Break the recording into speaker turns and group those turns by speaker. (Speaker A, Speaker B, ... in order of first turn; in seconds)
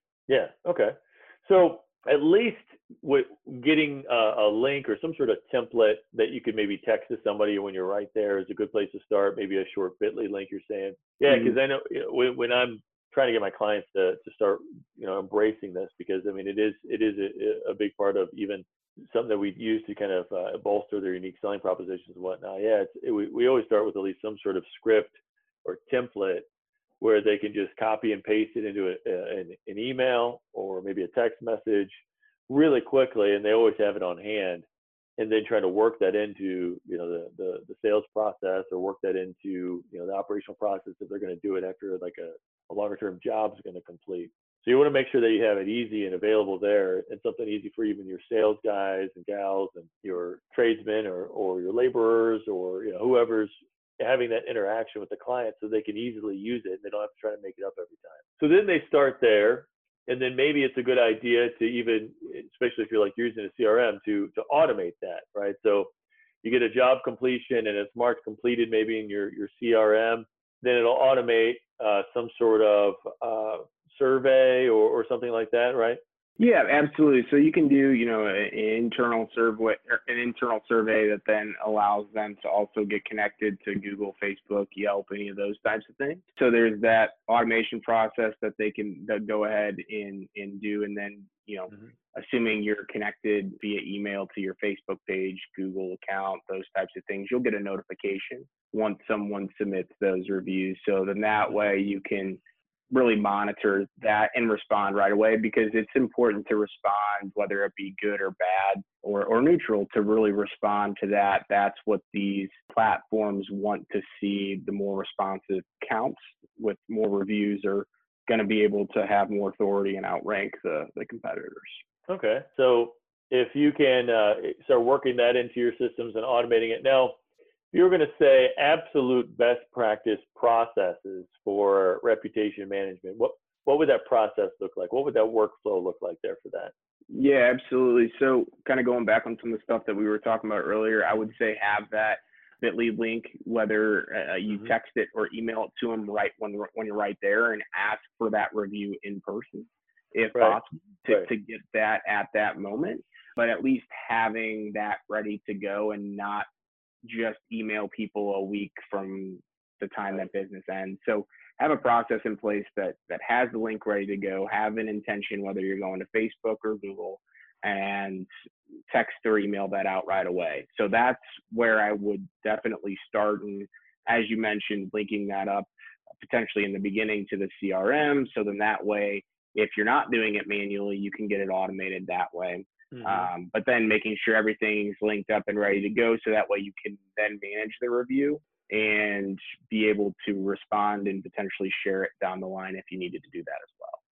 Speaker A: 0.3-26.5, 27.0-32.0, 32.5-34.6, 35.2-65.9, 66.4-76.0, 122.1-127.2, 127.7-136.7, 150.3-151.3, 182.9-183.3
Speaker B: 11.3-11.6, 76.4-102.4, 102.9-121.8, 137.1-156.5, 157.0-168.3, 168.9-194.0